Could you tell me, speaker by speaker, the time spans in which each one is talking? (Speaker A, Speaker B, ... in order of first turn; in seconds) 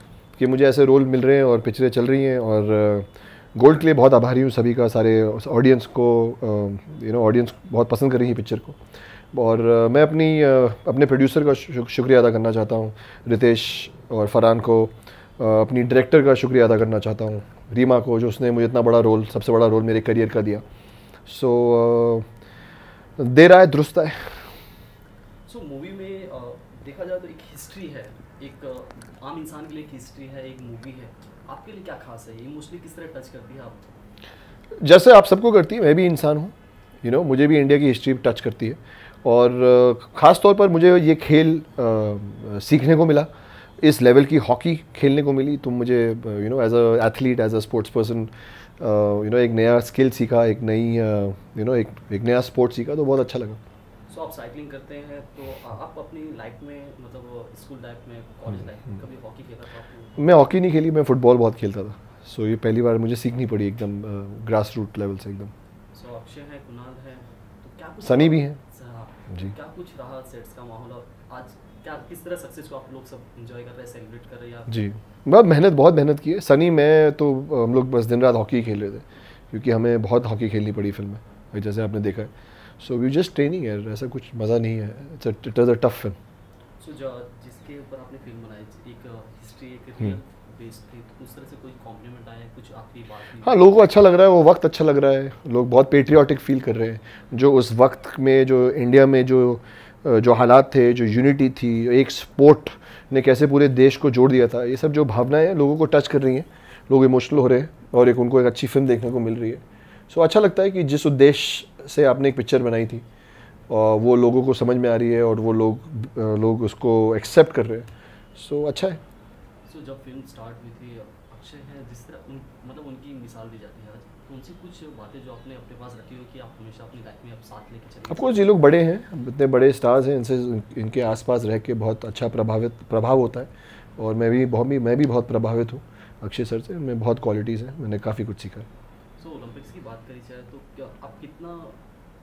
Speaker A: 0.4-8.8, 9.3-20.6, 21.3-22.3, 23.2-24.4, 34.8-43.3, 43.8-53.6, 60.2-65.5, 68.0-68.6, 74.7-86.2, 93.4-113.0, 113.7-119.0, 128.1-138.7
Speaker B: 25.5-33.8, 54.1-60.3, 65.9-74.9, 86.8-93.6, 119.7-128.4, 139.2-141.8